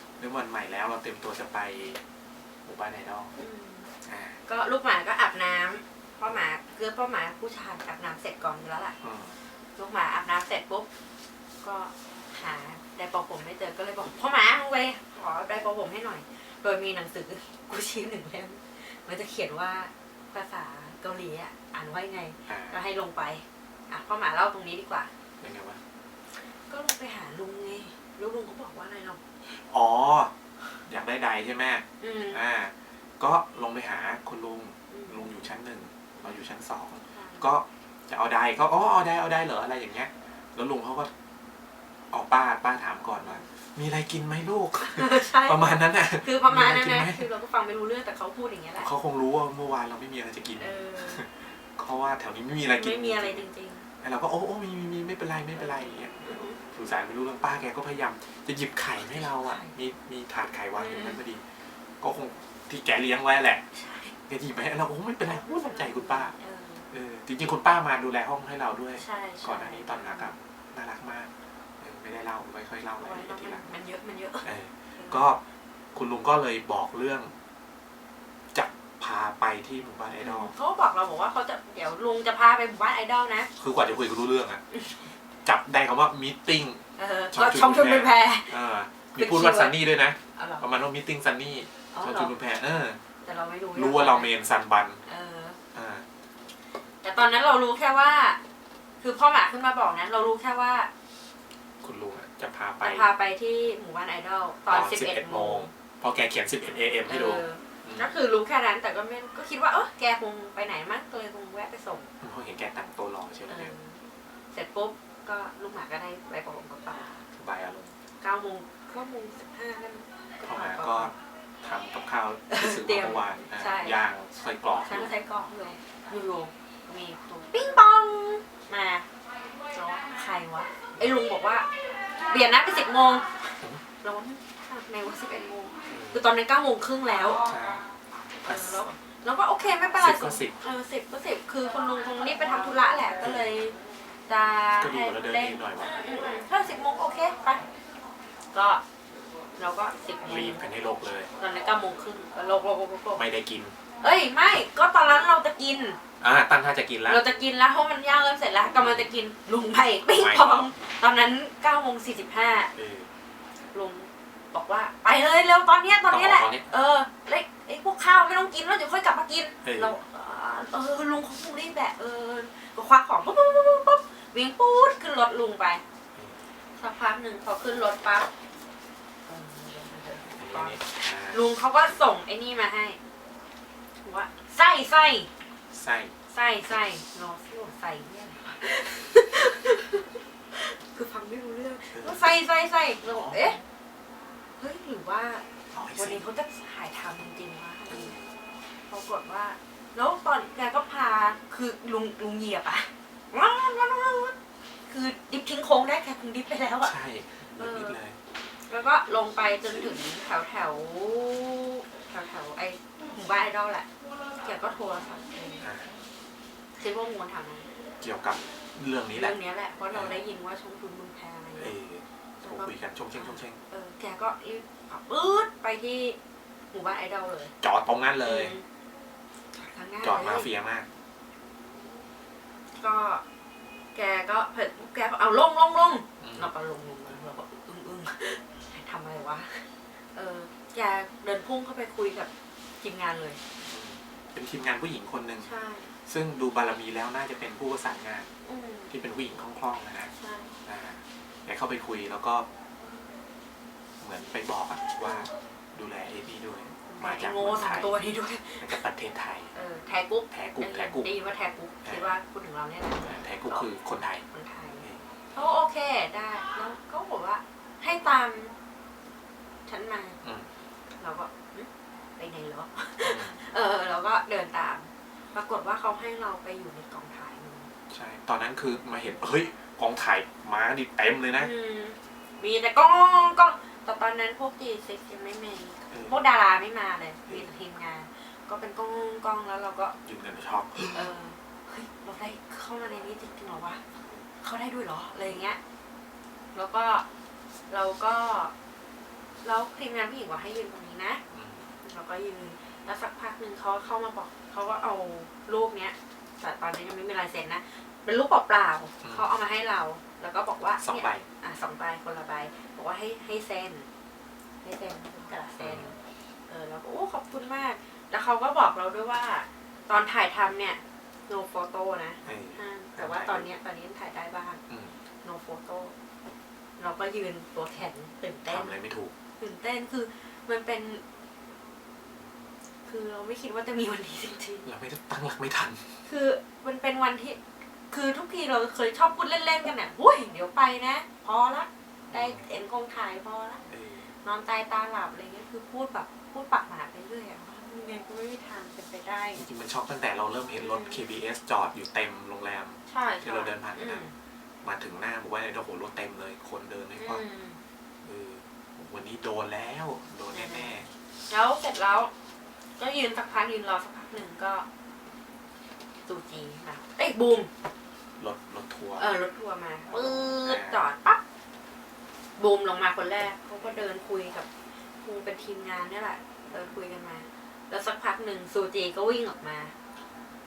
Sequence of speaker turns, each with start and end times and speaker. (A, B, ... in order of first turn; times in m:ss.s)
0:00.2-0:02.0 A
0:02.6-0:03.3 A
0:03.4-0:03.9 B
0:04.0-0:04.4 A
0:04.5-0:08.9 B
0:09.0-0:09.4 A
0:09.8-0:10.9 B
0:11.6-0:25.1 B
0:22.5-0:22.8 A
0:25.4-0:25.8 A
0:26.6-0:29.6 B
0:29.6-0:30.3 A
0:30.8-0:41.1 A
0:32.0-0:32.4 B
0:34.9-0:35.3 B
0:37.1-0:37.5 B
0:42.1-0:47.3 A
0:43.2-0:43.4 B
0:44.8-0:48.9 B
0:48.8-0:53.5 A
0:50.6-0:51.2 B
0:52.7-0:53.8 B
0:54.0-0:56.1 A
0:55.6-0:56.6 B
0:56.7-1:01.5 A
0:59.3-0:59.7 B
1:00.7-1:01.2 B
1:02.0-1:03.6 A
1:03.7-1:04.2 B
1:04.2-1:06.3 A
1:05.2-1:06.9 B
1:06.9-1:13.6 A
1:09.0-1:10.3 B
1:13.0-1:15.3 B
1:14.4-1:15.4 A
1:15.9-1:17.3 A
1:18.5-1:20.5 A
1:20.2-1:23.5 B
1:23.6-1:24.6 A
1:24.7-1:25.1 B
1:25.4-1:33.0 A
1:27.0-1:28.5 B
1:29.1-1:29.8 B
1:30.3-1:30.6 B
1:31.9-1:32.3 B
1:33.2-1:34.3 B
1:33.7-1:35.0 A
1:35.0-1:35.6 B
1:35.7-1:36.0 A
1:37.0-1:38.4 B
1:39.0-1:40.9 B
1:41.8-1:43.1 A
1:42.8-1:45.7 B
1:44.7-1:48.1 A
1:47.0-1:52.1 B
1:52.2-1:53.7 A
1:53.5-1:54.0 B
1:54.5-1:57.2 B
1:57.3-1:57.9 A
1:58.2-2:01.1 B
2:00.4-2:05.1 A
2:02.5-2:04.0 B
2:04.8-2:09.1 B
2:09.7-2:11.7 B
2:10.9-2:11.2 A
2:12.3-2:17.5 B
2:15.9-2:16.2 A
2:17.4-2:17.8 A
2:18.4-2:23.8 B
2:18.4-2:18.8 A
2:19.9-2:20.6 A
2:23.2-2:23.5 A
2:24.3-2:27.6 B
2:24.8-2:26.0 A
2:28.5-2:28.8 B
2:29.6-2:30.6 B
2:30.2-2:31.3 A
2:31.4-2:33.2 B
2:33.1-2:33.8 A
2:34.0-2:36.0 B
2:36.2-2:37.2 A
2:37.0-2:42.7 B
2:38.7-2:39.1 A
2:40.1-2:40.7 A
2:42.8-2:43.1 A
2:43.7-2:55.8 B
2:46.0-2:46.7 A
2:49.6-2:50.0 A
2:56.1-2:56.4 A
2:56.8-2:58.3 B
2:59.2-3:03.0 B
3:00.4-3:01.4 A
3:04.0-3:05.3 B
3:05.7-3:06.1 A
3:06.3-3:13.6 B
3:11.9-3:12.2 A
3:13.0-3:13.6 A
3:14.6-3:15.4 B
3:15.7-3:16.2 A
3:16.0-3:18.2 B
3:17.9-3:18.3 A
3:18.9-3:24.4 B
3:24.9-3:26.9 B
3:26.8-3:28.2 A
3:27.6-3:28.0 B
3:28.7-3:33.9 B
3:34.4-3:35.6 B
3:35.6-3:35.9 A
3:36.8-3:37.7 B
3:38.0-3:39.4 A
3:39.1-3:41.8 B
3:41.6-3:43.6 A
3:42.4-3:46.2 B
3:46.7-3:47.5 B
3:47.6-3:48.6 A
3:48.2-3:48.6 B
3:49.5-3:50.5 B
3:50.0-3:50.9 A
3:52.8-3:53.2 B
3:53.9-4:02.3 B
3:56.2-3:56.5 A
4:02.8-4:03.4 B
4:03.6-4:05.5 A
4:05.4-4:05.9 B
4:06.0-4:08.3 A
4:08.4-4:08.9 B
4:08.9-4:10.1 A
4:10.2-4:10.6 B
4:10.6-4:12.5 A
4:14.0-4:17.9 A
4:15.0-4:15.3 B
4:16.9-4:18.8 B
4:18.6-4:19.5 A
4:19.5-4:23.7 B
4:20.3-4:21.1 A
4:21.8-4:22.1 A
4:23.0-4:24.2 A
4:24.3-4:28.5 B
4:29.7-4:30.2 B
4:30.2-4:30.5 A
4:31.0-4:37.7 B
4:33.0-4:33.4 A
4:37.9-4:41.5 A
4:41.4-4:50.0 B
4:45.9-4:46.2 A
4:50.0-4:51.1 A
4:50.9-4:53.8 B
4:54.0-4:54.2 A
4:54.4-4:55.6 B
4:56.5-4:57.0 B
4:57.7-4:58.5 B
4:59.4-5:01.2 B
5:01.3-5:01.7 A
5:01.8-5:13.9 B
5:09.0-5:09.3 A
5:10.8-5:11.3 A
5:14.6-5:24.6 B
5:15.6-5:15.9 A
5:22.2-5:23.5 A
5:24.7-5:25.0 A
5:25.2-5:26.0 B
5:26.8-5:28.7 B
5:28.4-5:29.1 A
5:29.4-5:31.0 B
5:32.8-5:34.7 B
5:34.6-5:36.0 A
5:36.0-5:43.7 B
5:42.1-5:42.4 A
5:43.7-5:44.1 A
5:44.2-5:49.4 B
5:49.4-5:54.0 A
5:50.5-5:51.0 B
5:52.9-5:54.1 B
5:54.6-5:57.2 A
5:57.0-5:57.6 B
5:58.0-6:00.9 A
6:00.3-6:00.7 B
6:01.3-6:02.1 B
6:02.8-6:04.6 B
6:06.0-6:07.5 B
6:08.2-6:09.1 A
6:09.0-6:11.2 B
6:09.9-6:10.8 A
6:12.4-6:14.5 B
6:15.0-6:19.7 B